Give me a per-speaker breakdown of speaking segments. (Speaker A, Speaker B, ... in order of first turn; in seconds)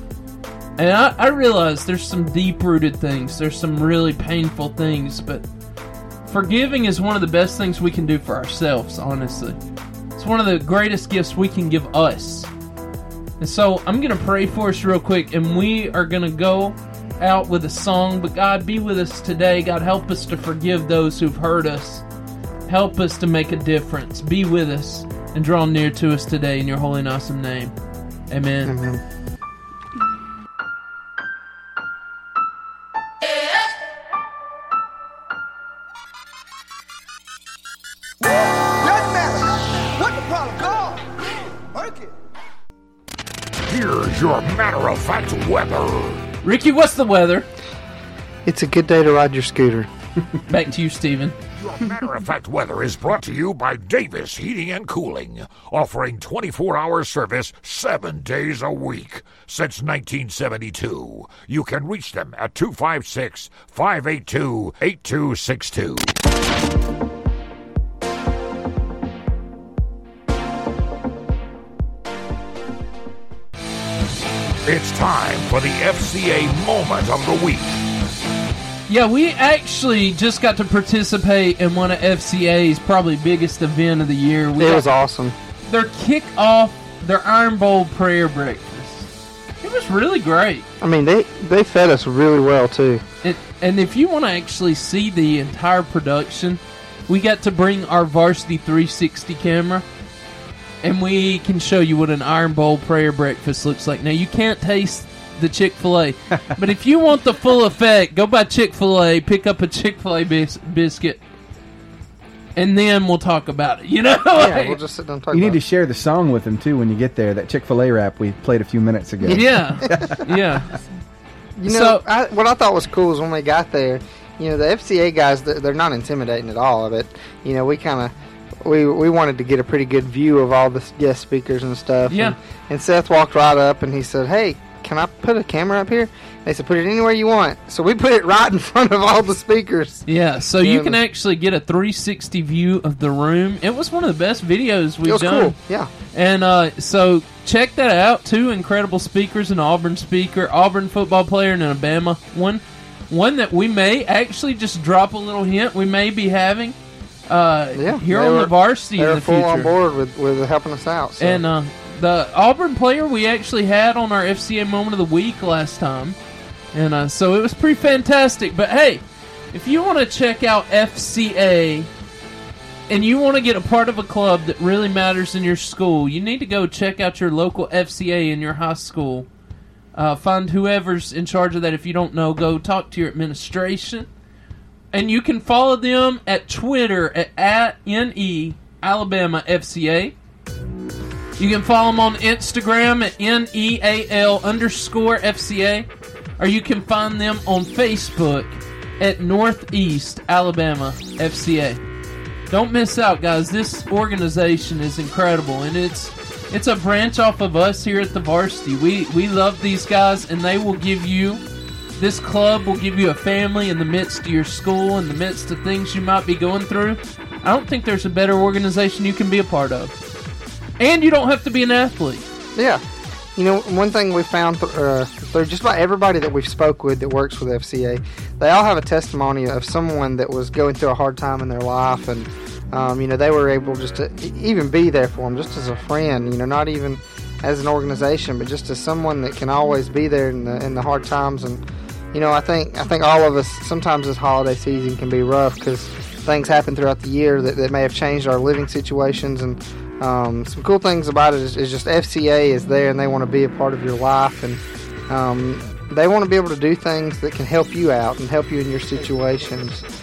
Speaker A: 0.8-5.4, 6.3-9.6, 10.2-12.5, 13.4-22.0, 22.7-27.7, 28.3-28.8, 46.4-47.5, 50.5-51.4, 78.9-84.9, 85.7-89.1, 89.6-90.7, 93.2-99.8, 100.8-111.2, 112.6-114.8, 119.3-120.7, 121.7-122.0, 132.1-132.4, 140.1-145.6, 146.1-156.8, 157.3-159.7, 161.2-166.2, 166.7-171.9, 172.9-179.3, 179.9-184.1, 184.9-190.1, 191.4-195.9, 196.4-201.8, 202.5-211.4, 212.0-219.9, 220.8-222.3
Speaker B: 28.7-29.0, 48.5-49.9, 84.6-85.3, 90.8-93.0, 114.3-115.6, 119.3-120.1, 121.6-128.1, 128.6-140.1, 140.6-141.0, 145.0-145.9, 157.8-161.4, 222.6-222.8, 223.4-241.6, 242.1-259.8
Speaker C: 38.2-41.1, 41.8-42.1
Speaker D: 43.7-46.2, 51.6-66.2, 74.7-77.8
Speaker E: 115.3-120.2